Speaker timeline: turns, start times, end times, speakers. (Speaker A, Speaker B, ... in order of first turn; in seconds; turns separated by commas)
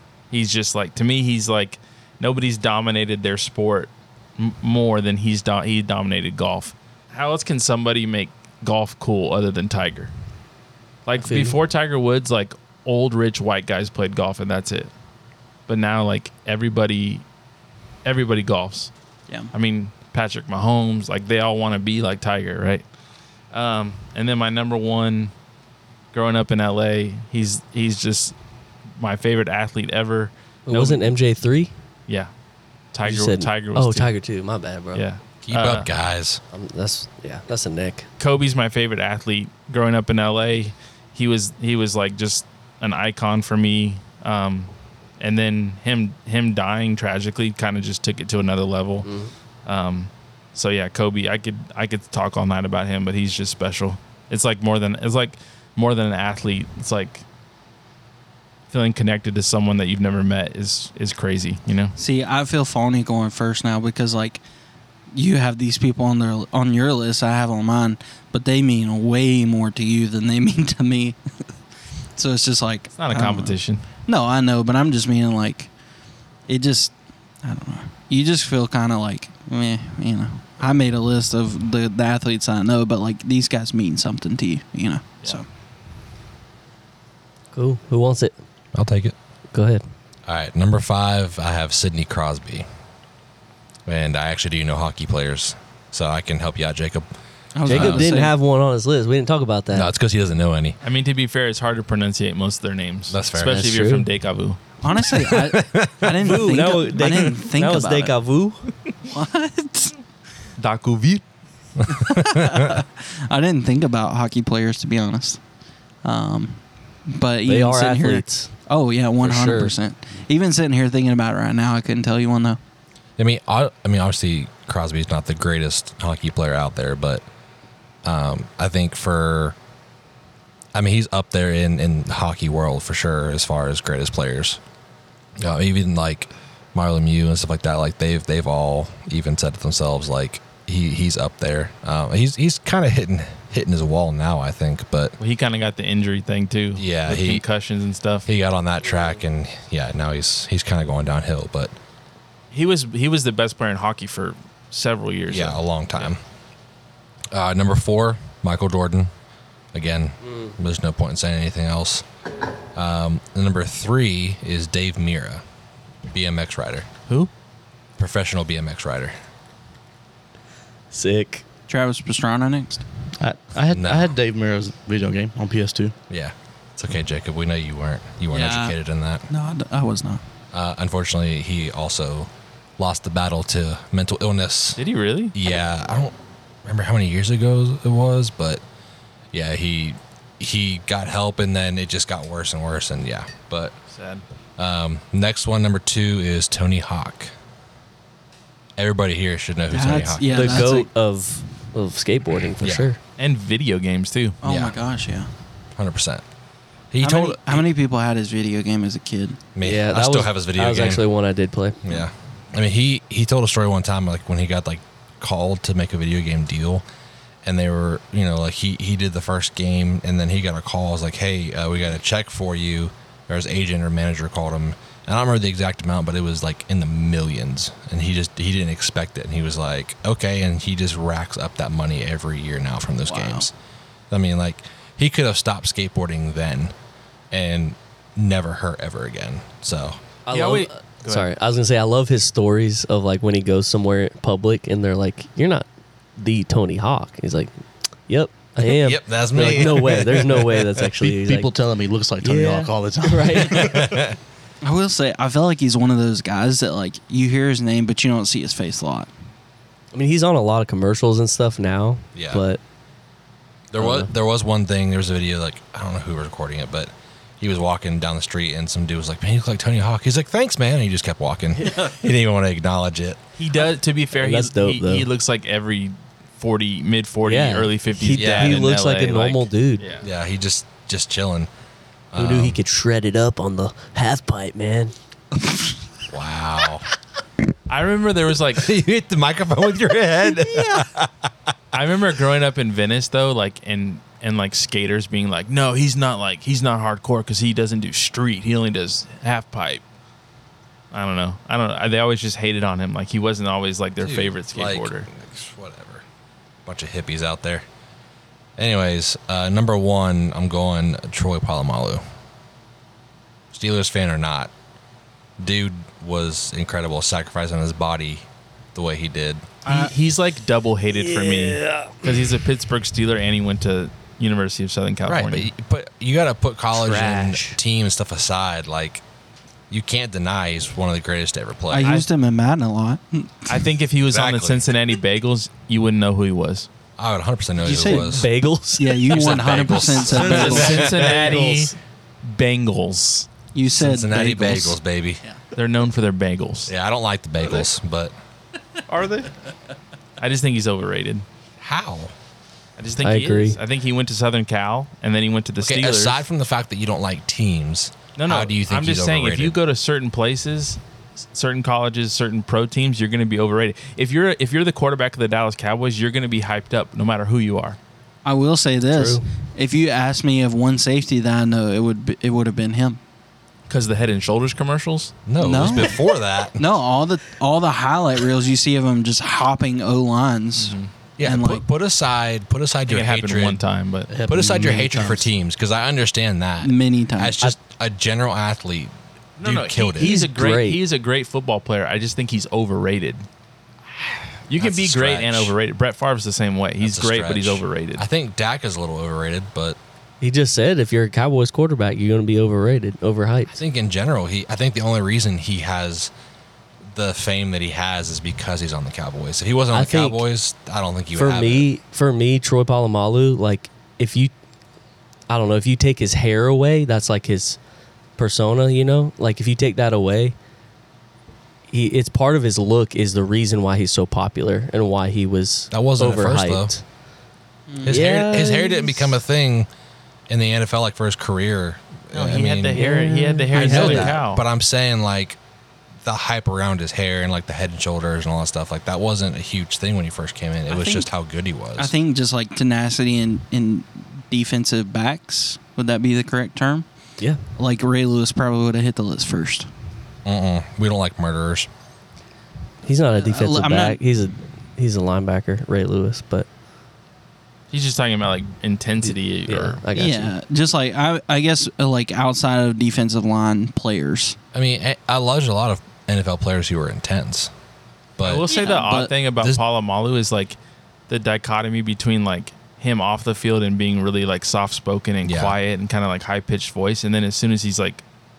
Speaker A: 0.3-10.1, Speaker A: 11.1-14.9, Speaker B: 11.2-11.6, Speaker A: 15.7-17.2, Speaker A: 18.1-18.9, Speaker A: 19.5-22.9, Speaker A: 23.5-25.3, Speaker A: 26.1-28.4, Speaker A: 29.0-31.1, Speaker B: 30.7-31.7, Speaker A: 32.9-34.1, Speaker B: 33.0-35.0, Speaker A: 34.9-35.9, Speaker C: 35.4-36.4, Speaker B: 36.5-38.1, Speaker A: 38.2-49.1, Speaker B: 49.0-49.3, Speaker A: 49.7-57.2, Speaker A: 58.7-62.0, Speaker D: 62.0-64.4, Speaker D: 65.1-71.2, Speaker D: 72.2-75.7, Speaker A: 73.0-73.8, Speaker D: 76.5-85.5, Speaker B: 87.5-88.3, Speaker C: 88.8-89.2, Speaker B: 89.5-89.8, Speaker C: 90.3-92.7, Speaker C: 93.9-97.1, Speaker D: 97.5-98.3, Speaker C: 97.6-98.1, Speaker B: 97.7-99.9, Speaker C: 99.7-100.8, Speaker A: 100.8-104.6, Speaker C: 103.1-103.6, Speaker B: 103.4-104.1, Speaker D: 104.8-108.2, Speaker C: 104.9-106.4, Speaker B: 106.2-108.7, Speaker D: 109.1-110.0, Speaker A: 110.6-111.2, Speaker D: 111.9-115.4, Speaker C: 112.1-112.7, Speaker D: 116.0-122.6, Speaker B: 117.5-118.5, Speaker B: 119.2-119.8, Speaker C: 123.2-127.2, Speaker C: 128.0-129.6, Speaker C: 130.8-134.6, Speaker C: 135.4-145.2, Speaker A: 145.2-148.3, Speaker C: 146.8-147.4, Speaker C: 148.3-151.7, Speaker A: 152.5-156.1, Speaker C: 155.3-156.2, Speaker C: 157.3-159.1, Speaker C: 159.7-162.1, Speaker C: 162.8-165.4, Speaker C: 166.1-166.9, Speaker C: 168.0-169.1, Speaker B: 170.9-171.4, Speaker D: 171.7-172.8, Speaker E: 173.2-176.0, Speaker C: 173.7-174.1, Speaker C: 176.1-179.3, Speaker D: 178.3-178.8, Speaker D: 179.3-180.2, Speaker C: 180.5-184.8, Speaker A: 184.8-185.3, Speaker C: 185.3-188.6, Speaker C: 189.3-193.8, Speaker A: 193.9-194.2, Speaker C: 194.6-197.3, Speaker C: 198.8-200.7, Speaker D: 199.7-200.9, Speaker B: 200.3-203.0, Speaker C: 202.6-202.9, Speaker A: 203.2-204.4, Speaker D: 204.4-205.3, Speaker C: 204.4-204.8, Speaker C: 205.8-206.2, Speaker C: 206.9-207.7, Speaker D: 207.0-209.4, Speaker C: 209.6-211.0, Speaker B: 209.6-212.0, Speaker C: 211.8-216.8, Speaker C: 217.4-233.5, Speaker D: 233.1-233.5, Speaker C: 234.1-236.7, Speaker C: 237.3-240.0, Speaker B: 240.3-245.7, Speaker A: 240.3-241.3, Speaker B: 246.2-247.5, Speaker B: 248.1-251.5, Speaker C: 248.6-250.7, Speaker E: 251.0-253.9, Speaker B: 252.2-253.8, Speaker C: 253.5-254.2, Speaker D: 254.6-259.1, Speaker B: 259.9-262.6, Speaker C: 262.1-262.4, Speaker C: 263.7-273.2, Speaker B: 263.8-264.1, Speaker A: 273.4-280.1, Speaker B: 274.1-275.1, Speaker B: 277.2-279.9, Speaker C: 278.2-278.7, Speaker C: 280.0-281.5, Speaker C: 282.1-282.6, Speaker B: 282.2-284.9, Speaker C: 286.1-286.9, Speaker A: 287.7-288.7, Speaker C: 288.6-291.3, Speaker A: 291.7-299.8, Speaker A: 300.9-305.1, Speaker C: 304.0-306.0, Speaker C: 306.7-307.6, Speaker C: 308.6-312.0, Speaker C: 313.5-314.5, Speaker C: 315.4-319.5, Speaker D: 319.6-319.9, Speaker A: 319.6-325.5, Speaker B: 320.9-322.1, Speaker C: 325.1-329.0, Speaker B: 326.8-327.6, Speaker C: 329.7-332.0, Speaker D: 331.7-333.6, Speaker A: 331.8-332.1, Speaker A: 333.5-336.7, Speaker C: 334.1-334.7, Speaker C: 337.0-338.3, Speaker D: 337.6-338.2, Speaker B: 337.8-339.4, Speaker D: 338.8-341.0, Speaker C: 339.1-341.3, Speaker A: 339.8-343.3, Speaker B: 340.1-341.7, Speaker D: 343.5-345.4, Speaker C: 343.7-345.2, Speaker A: 345.6-346.7, Speaker C: 346.7-348.1, Speaker E: 348.9-349.3, Speaker A: 350.2-351.2, Speaker C: 351.6-352.1, Speaker A: 352.8-356.2, Speaker B: 353.0-353.6, Speaker C: 355.6-359.6, Speaker A: 358.2-360.8, Speaker A: 361.3-367.8, Speaker D: 368.2-373.0, Speaker B: 368.9-369.2, Speaker A: 373.7-375.2, Speaker C: 375.3-376.6, Speaker D: 375.4-381.6, Speaker A: 380.6-380.9, Speaker C: 381.2-383.6, Speaker A: 382.9-384.1, Speaker E: 384.1-385.3, Speaker C: 384.3-390.1, Speaker D: 386.6-387.4, Speaker A: 389.4-393.2, Speaker B: 390.0-390.8, Speaker A: 394.5-398.1, Speaker C: 394.6-395.5, Speaker C: 396.8-399.8, Speaker B: 400.2-403.6, Speaker C: 403.5-406.1, Speaker C: 406.9-411.7, Speaker B: 409.7-410.2, Speaker B: 411.1-414.3, Speaker B: 415.3-417.6, Speaker B: 418.2-420.4, Speaker B: 421.7-426.8, Speaker C: 425.7-426.7, Speaker D: 427.7-428.1, Speaker C: 427.8-429.7, Speaker B: 427.9-429.1, Speaker C: 430.3-432.9, Speaker A: 432.1-434.4, Speaker B: 432.7-434.1, Speaker C: 433.6-435.4, Speaker C: 436.0-441.9, Speaker D: 440.7-441.1, Speaker D: 441.8-446.9, Speaker D: 447.6-449.7, Speaker C: 450.2-451.7, Speaker B: 452.9-456.5, Speaker D: 453.2-454.0, Speaker A: 457.7-459.8, Speaker B: 459.0-460.4, Speaker D: 459.9-464.4, Speaker C: 464.5-467.5, Speaker C: 468.2-468.5, Speaker A: 468.2-470.6, Speaker D: 468.5-469.1, Speaker A: 471.1-478.0, Speaker C: 475.2-475.6